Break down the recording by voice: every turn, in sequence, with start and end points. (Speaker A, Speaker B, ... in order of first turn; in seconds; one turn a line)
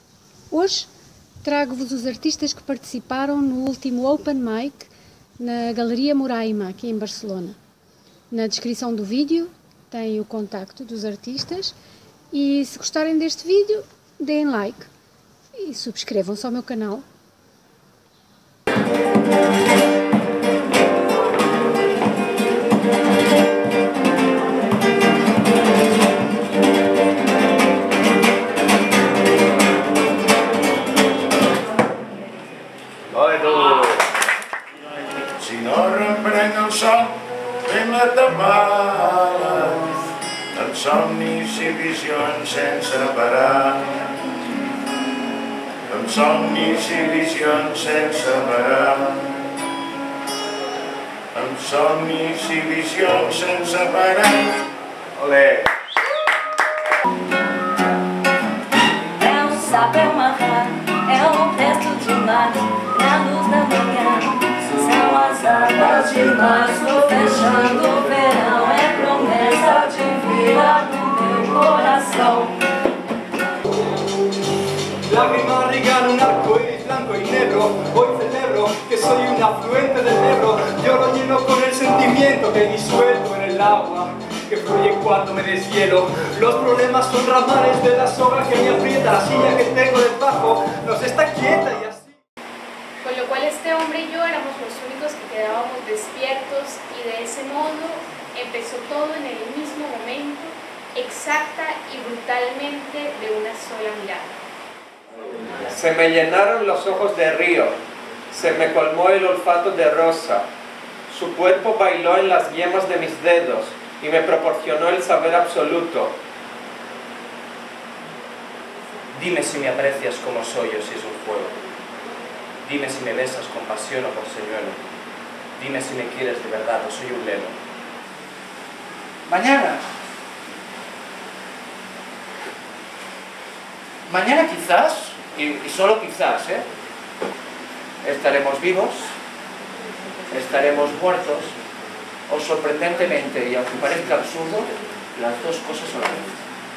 Speaker A: 0.5-0.9
Speaker A: 1.4-7.6
Speaker A: 8.3-11.7
Speaker A: 12.3-14.9
Speaker A: 15.6-17.1
Speaker B: 33.2-33.7
Speaker B: 35.4-44.0
Speaker B: 45.9-49.4
Speaker B: 51.3-54.6
Speaker B: 55.2-55.6
Speaker C: 59.2-72.6
Speaker D: 75.1-92.2
Speaker E: 93.0-104.3
Speaker F: 105.7-107.7
Speaker F: 108.3-110.5
Speaker F: 111.1-116.1
Speaker G: 119.1-121.5
Speaker G: 122.7-124.8
Speaker G: 125.6-127.6
Speaker H: 129.3-129.8
Speaker H: 134.1-136.7
Speaker H: 138.0-139.1
Speaker H: 140.3-141.5
Speaker H: 142.3-146.2